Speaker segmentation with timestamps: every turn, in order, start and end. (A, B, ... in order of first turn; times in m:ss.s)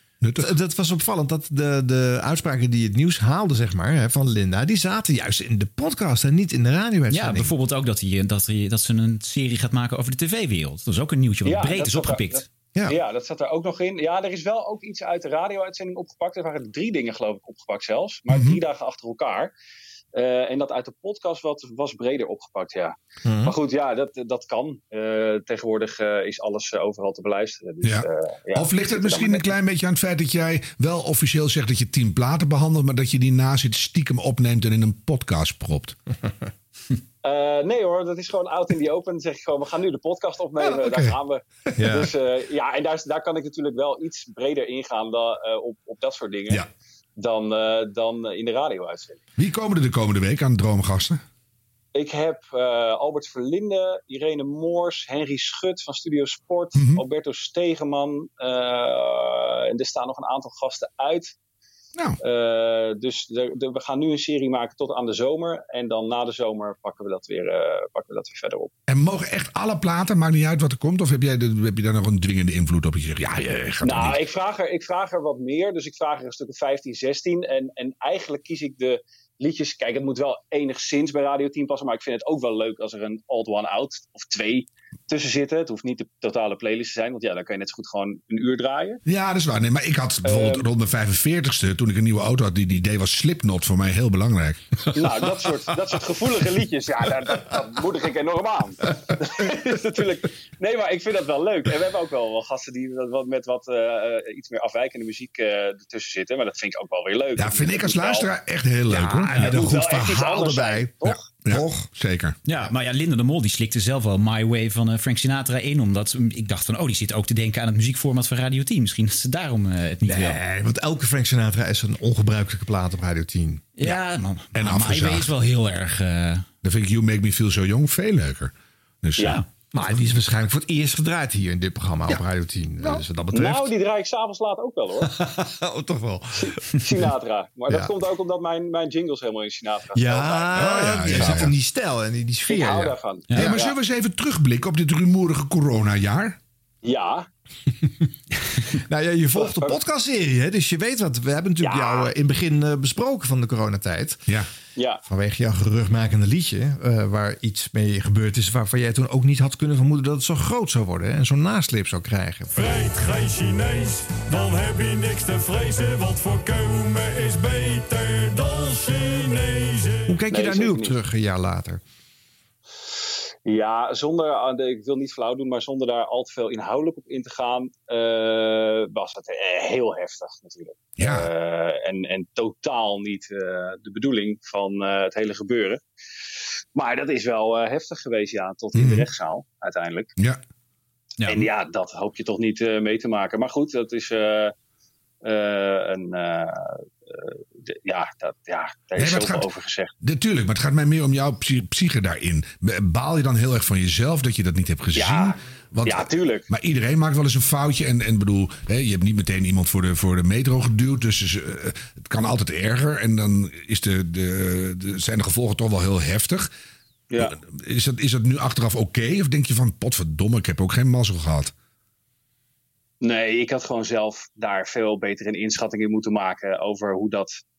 0:00.2-0:00.5 A
0:00.4-0:07.5 B
0:07.1-0:12.4 C
0:11.4-0:19.5 D
0:18.3-0:18.6 A
0:20.1-0:29.5 D
0:23.2-0:23.6 B
0:27.8-0:36.0 A
0:37.2-0:46.6 D
0:40.6-0:41.2 A
0:41.8-0:42.1 B
0:47.2-0:49.2 D
0:49.4-0:51.2 A
0:52.0-1:01.3 D
0:56.8-0:57.0 A
1:02.2-1:08.7 D
1:08.9-1:14.2 A
1:13.8-1:29.0 D
1:29.1-1:34.8 A
1:30.2-1:30.7 D
1:34.9-1:48.3 D
1:47.4-1:49.6 A
1:48.9-1:50.9 B
1:49.4-1:51.2 D
1:51.0-1:52.4 A
1:51.5-1:51.9 B
1:52.5-2:00.4 C
2:00.0-2:03.7 B
2:03.8-2:06.5 C
2:04.6-2:05.3 A
2:06.6-2:08.5 A
2:09.0-2:09.4 A
2:09.2-2:09.4 C
2:09.7-2:13.7 B
2:13.3-2:15.1 D
2:15.0-2:16.5 B
2:16.4-2:21.2 D
2:20.0-2:23.0 B
2:20.6-2:21.5 A
2:22.5-2:23.7 D
2:23.3-2:23.5 C
2:23.4-2:26.4 A
2:26.8-2:27.3 D
2:28.9-2:34.2 B
2:29.4-2:29.8 D
2:31.6-2:32.1 D
2:35.1-2:42.7 B
2:42.6-2:50.1 E
2:50.1-2:51.8 B
2:50.3-2:51.0 D
2:53.4-3:05.8 D
3:01.0-3:01.3 A
3:06.8-3:10.1 D
3:08.8-3:09.1 A
3:11.2-3:11.5 C
3:11.3-3:14.5 D
3:15.2-3:19.9 D
3:19.0-3:19.5 A
3:20.0-3:36.5 A
3:25.0-3:26.5 D
3:37.2-3:41.5 A
3:43.0-3:47.4 D